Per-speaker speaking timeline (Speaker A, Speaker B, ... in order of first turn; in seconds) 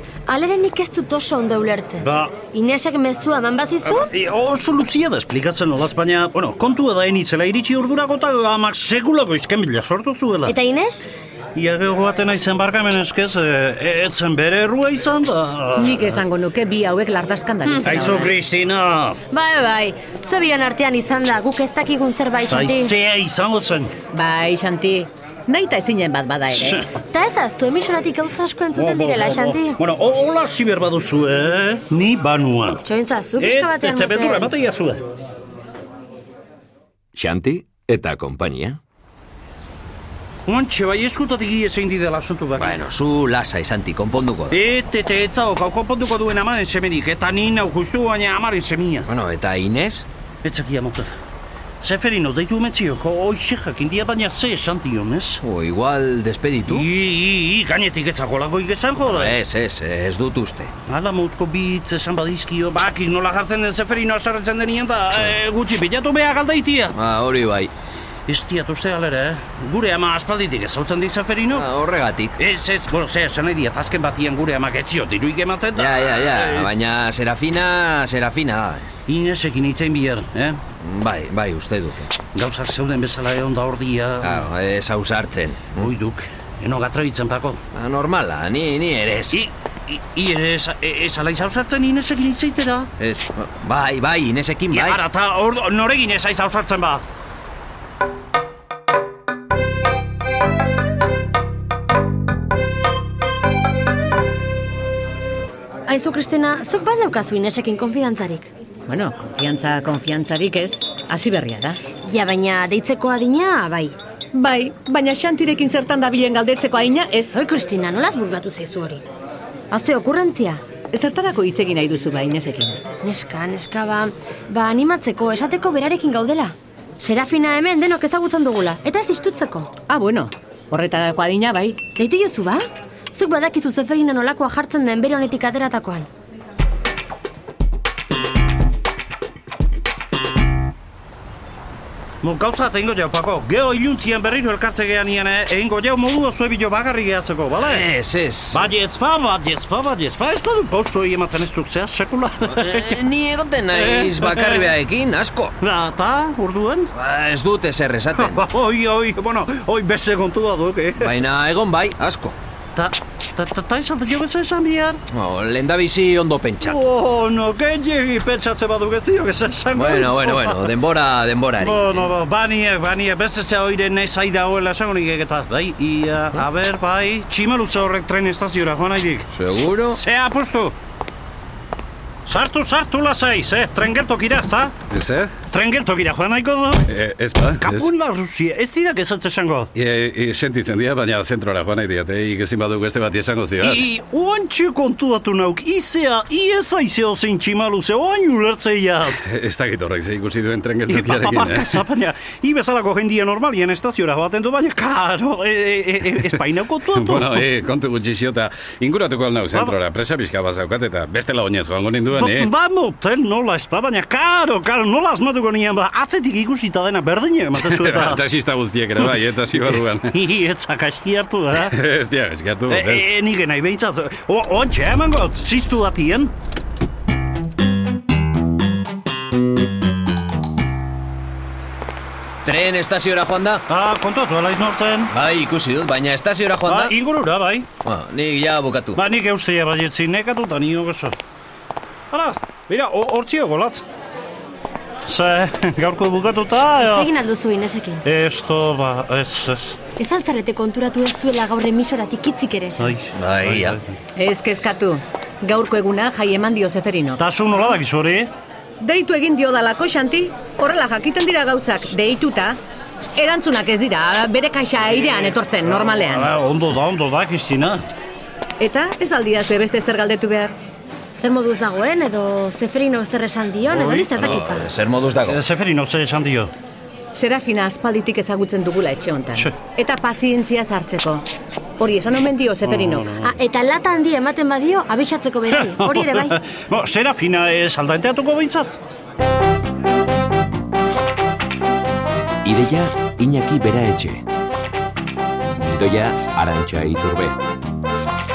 Speaker A: 0.3-4.1, 10.4-11.0, 17.6-18.3, 19.3-22.9, 27.0-29.8, 32.8-34.5, 105.9-108.5, 112.0-113.9, 117.3-119.0, 119.7-120.6, 123.0-129.7, 131.9-136.1, 246.8-248.0, 250.0-252.9, 271.1-274.7, 283.2-286.4
Speaker B: 2.0-2.4, 3.9-10.5, 11.5-16.1, 17.9-19.2, 22.5-24.0, 28.7-32.8, 33.4-35.0, 40.5-42.7, 44.5-49.1, 50.4-51.1, 51.8-55.4, 56.7-59.3, 60.9-67.0, 68.3-71.7, 72.4-76.0, 79.1-80.6, 82.3-84.4, 85.8-87.6, 89.3-92.9, 94.7-97.0, 142.2-147.8, 148.5-152.9, 153.8-154.6, 155.6-156.9, 158.1-161.1, 162.7-165.0, 166.7-170.6, 171.6-179.2, 179.9-180.7, 182.2-184.8, 185.4-186.8, 187.6-189.7, 193.6-199.2, 200.9-207.4, 212.1-218.2, 220.1-221.7, 222.7-226.3, 233.7-235.1, 236.7-237.7, 238.9-241.2, 242.1-243.8, 245.1-247.1, 248.0-249.8, 252.8-253.1, 257.2-258.3, 266.1-267.8, 273.7-274.1, 275.3-276.5, 282.6-283.1, 285.5-288.8
Speaker C: 15.7-18.4, 24.1-26.9, 108.9-111.8, 114.3-117.4, 120.9-122.8, 129.9-131.8, 254.1-257.2, 258.8-262.6, 263.1-266.4, 268.6-270.6, 277.1-281.2, 281.8-283.2
Speaker D: 37.2-38.8, 292.4-294.2, 295.5-297.4
Speaker E: 37.6-37.9, 42.5-44.6, 49.0-50.0, 55.4-56.9, 59.0-60.7, 66.9-67.7, 71.5-72.4, 75.8-78.9, 80.8-82.1, 84.2-85.9, 87.7-89.4, 93.0-95.0, 147.5-148.7, 152.5-155.6, 156.9-158.4, 161.0-162.3, 165.1-166.9, 169.7-172.1, 179.3-180.0, 232.4-233.6, 235.1-236.9, 237.8-239.0, 253.1-253.8, 274.1-275.4
Speaker F: 184.8-185.4, 186.8-187.9, 189.7-193.9, 199.1-201.8, 206.2-212.5, 217.5-220.1, 221.6-223.1